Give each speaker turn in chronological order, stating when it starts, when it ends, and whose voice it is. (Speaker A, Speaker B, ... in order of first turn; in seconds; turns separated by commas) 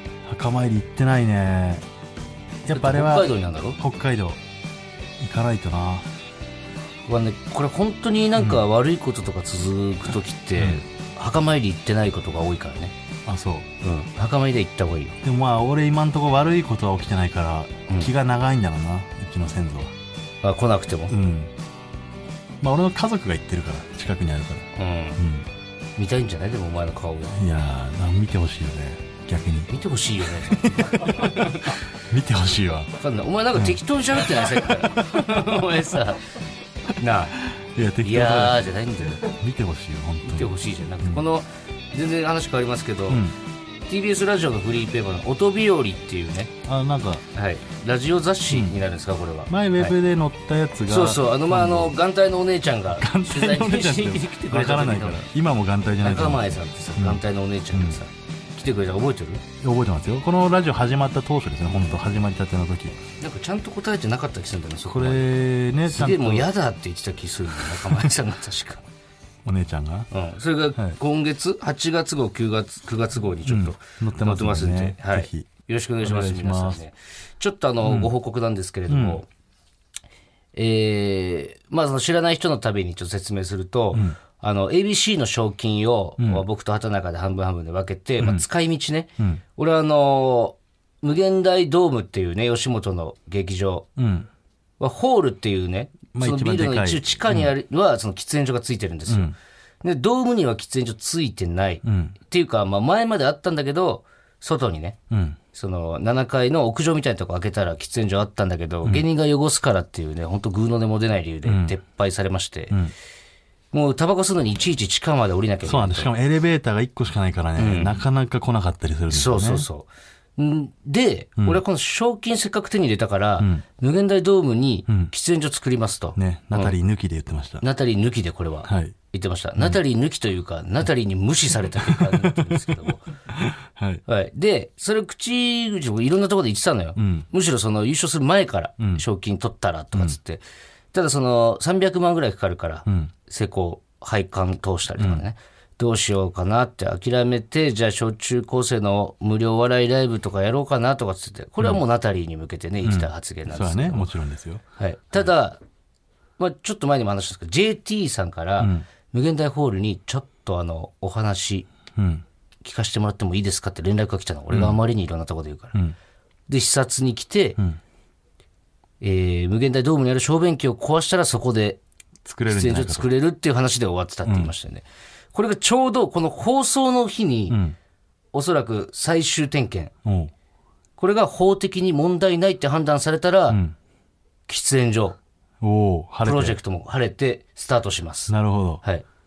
Speaker A: 0.2-1.8, Speaker A: 2.6-4.4, Speaker B: 2.7-3.8, Speaker A: 5.2-6.1, Speaker B: 7.1-12.9, Speaker A: 8.4-8.6, Speaker A: 10.6-10.8, Speaker A: 13.2-13.7, Speaker B: 13.8-15.2, Speaker A: 15.2-19.9, Speaker B: 20.4-21.1, Speaker A: 21.1-21.5, Speaker A: 22.6-25.5, Speaker B: 24.8-25.2, Speaker B: 26.0-27.4, Speaker A: 27.3-29.7, Speaker B: 29.7-31.8, Speaker A: 30.5-32.9, Speaker B: 33.0-36.2, Speaker A: 34.3-35.4, Speaker B: 37.0-37.4, Speaker A: 37.5-40.5, Speaker B: 38.0-39.2, Speaker B: 40.2-43.3, Speaker A: 43.1-43.3, Speaker B: 43.9-46.5, Speaker A: 46.6-47.2, Speaker B: 47.3-49.9, Speaker A: 48.5-48.8, Speaker A: 49.5-51.9, Speaker B: 50.9-55.2, Speaker A: 53.0-58.0, Speaker B: 56.0-59.4, Speaker A: 59.6-63.0, Speaker B: 63.2-68.8, Speaker A: 64.9-66.5, Speaker A: 67.6-68.1, Speaker A: 69.4-70.1, Speaker B: 70.1-79.2, Speaker A: 73.5-75.5, Speaker A: 76.0-76.8, Speaker A: 77.8-78.1, Speaker A: 78.9-79.2, Speaker B: 80.5-93.9, Speaker A: 83.9-84.2, Speaker A: 86.2-86.4, Speaker A: 94.0-94.3, Speaker B: 94.8-105.0, Speaker A: 96.1-97.5, Speaker A: 99.1-99.3, Speaker A: 101.8-102.1, Speaker A: 105.1-105.4, Speaker B: 105.5-112.8, Speaker A: 111.4-111.8, Speaker B: 113.7-116.1, Speaker A: 115.6-119.7, Speaker B: 117.6-118.0, Speaker B: 119.1-126.7, Speaker A: 123.4-123.6, Speaker A: 126.2-127.6, Speaker B: 127.6-133.1, Speaker A: 128.7-128.9, Speaker A: 131.8-132.7, Speaker A: 133.3-134.0, Speaker B: 134.1-140.4, Speaker A: 137.0-137.3, Speaker A: 138.8-139.0, Speaker B: 140.9-154.1, Speaker A: 142.8-143.1, Speaker A: 145.0-145.2, Speaker A: 152.8-154.6, Speaker B: 154.8-155.6, Speaker B: 156.4-161.7, Speaker A: 158.6-158.8, Speaker A: 161.9-162.2, Speaker B: 162.6-165.8, Speaker A: 164.5-164.8, Speaker B: 166.5-167.6, Speaker B: 169.0-171.8, Speaker A: 172.2-173.1, Speaker B: 172.5-177.6, Speaker A: 174.2-174.5, Speaker A: 177.5-177.8, Speaker B: 178.3-179.9, Speaker A: 180.0-180.3, Speaker B: 181.0-183.6, Speaker A: 183.5-183.7, Speaker B: 184.5-185.2, Speaker A: 185.6-186.6, Speaker B: 186.2-189.1, Speaker A: 188.3-188.8